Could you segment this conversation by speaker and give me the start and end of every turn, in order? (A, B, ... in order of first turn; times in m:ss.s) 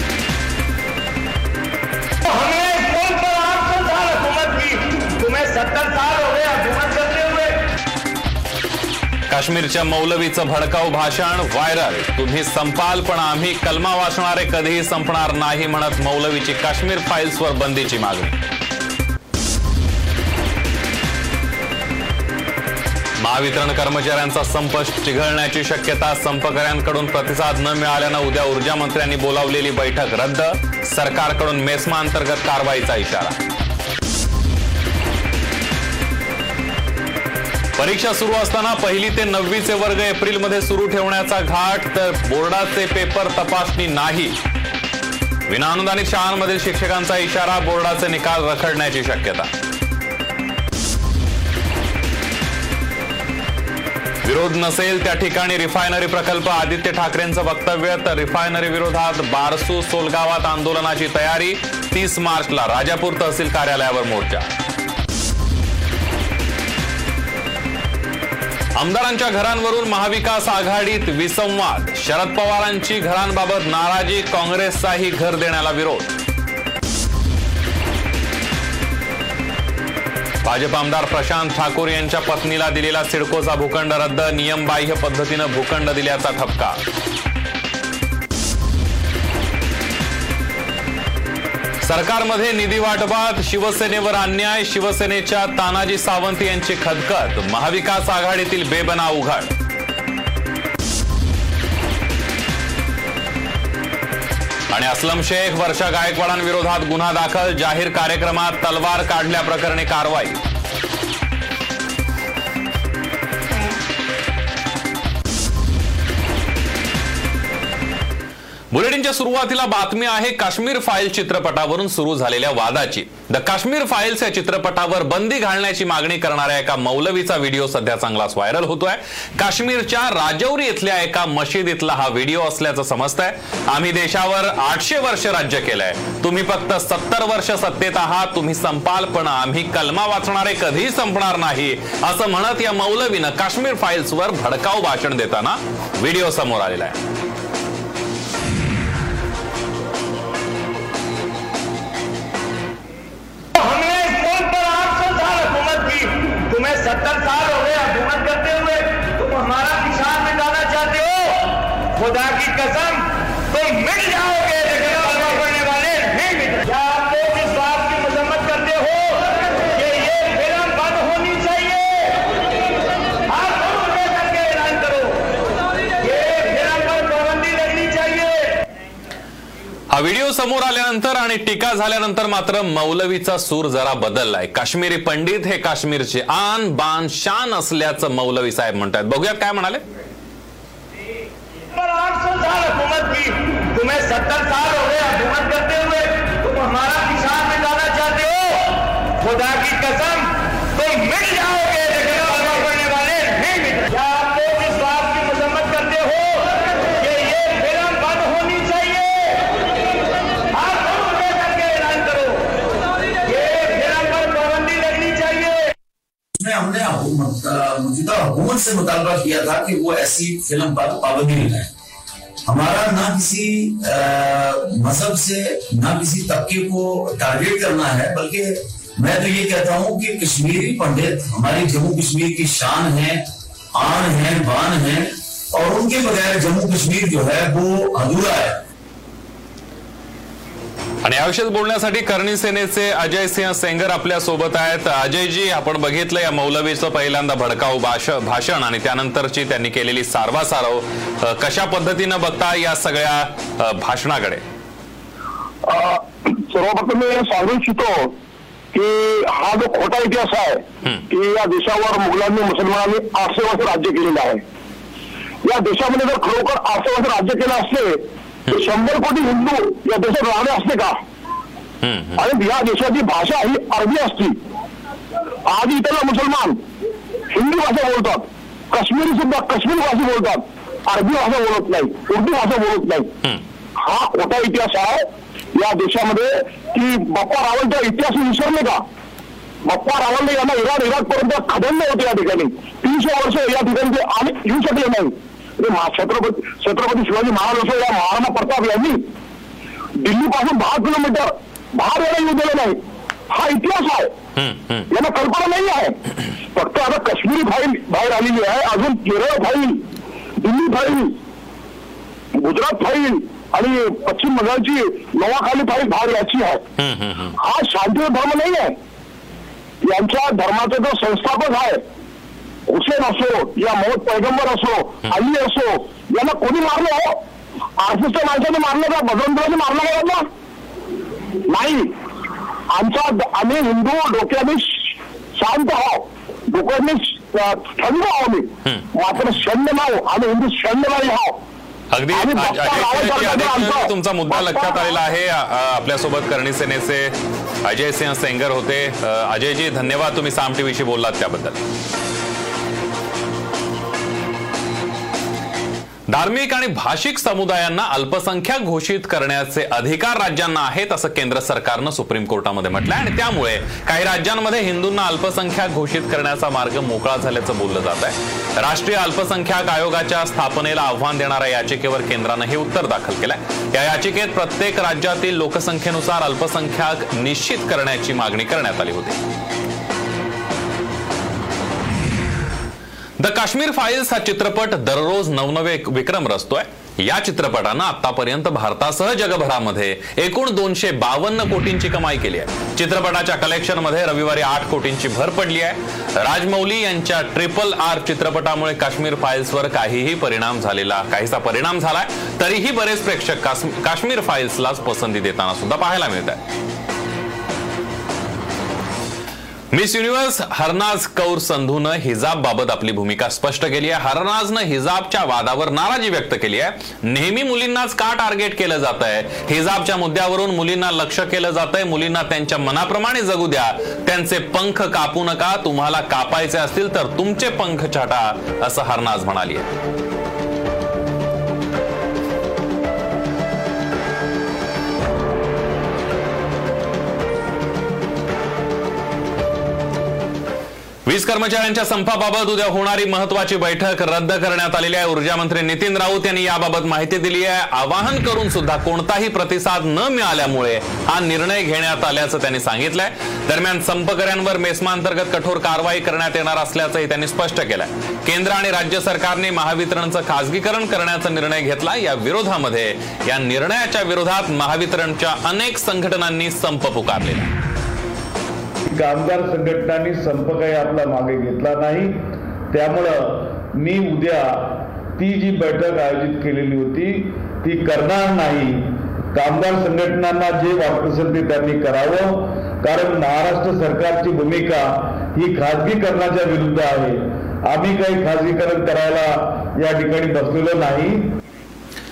0:02.2-0:07.6 A
0:09.3-0:18.4 B
0:23.2-0:33.4 B
0:37.8-0:44.4 B
0:45.5-0:49.5 B
0:54.2-1:04.5 B
1:08.8-1:16.1 B
1:20.4-1:26.8 B
1:31.8-1:39.5 B
1:44.7-1:50.4 B
1:58.7-2:27.0 B
2:33.5-2:41.4 A
2:41.9-2:52.2 A
2:53.3-2:55.2 A
2:56.0-2:58.5 A
2:59.9-3:09.8 B
3:11.7-3:18.6 A
3:19.2-3:29.4 A
3:30.5-3:32.5 A
3:33.2-3:35.7 A
3:36.3-3:41.7 C
3:42.4-3:53.2 C
3:53.7-3:58.6 C
4:01.0-4:14.4 B
4:15.6-4:18.1 D
4:18.7-4:24.4 D
4:25.4-4:31.0 D
4:31.8-4:32.2 B
4:32.2-4:34.4 D
4:35.4-4:36.6 D
4:37.3-4:43.1 D
4:43.8-4:48.8 D
4:49.6-4:59.0 D
5:00.0-5:02.8 D
5:03.3-5:04.1 D
5:04.4-5:04.9 B
5:04.9-5:06.0 D
5:06.5-5:09.8 D
5:10.4-5:11.1 D
5:12.3-5:16.6 D
5:16.8-5:17.3 B
5:17.4-5:18.7 D
5:19.8-5:21.8 D
5:22.7-5:27.2 D
5:27.8-5:30.2 D
5:31.5-5:31.9 D
5:32.7-5:41.4 D
5:41.9-5:51.6 B
5:42.1-5:44.8 D
5:56.1-6:19.2 B
6:23.2-6:46.4 B
6:49.7-7:09.7 B
7:21.0-7:47.5 B
7:48.9-8:11.3 E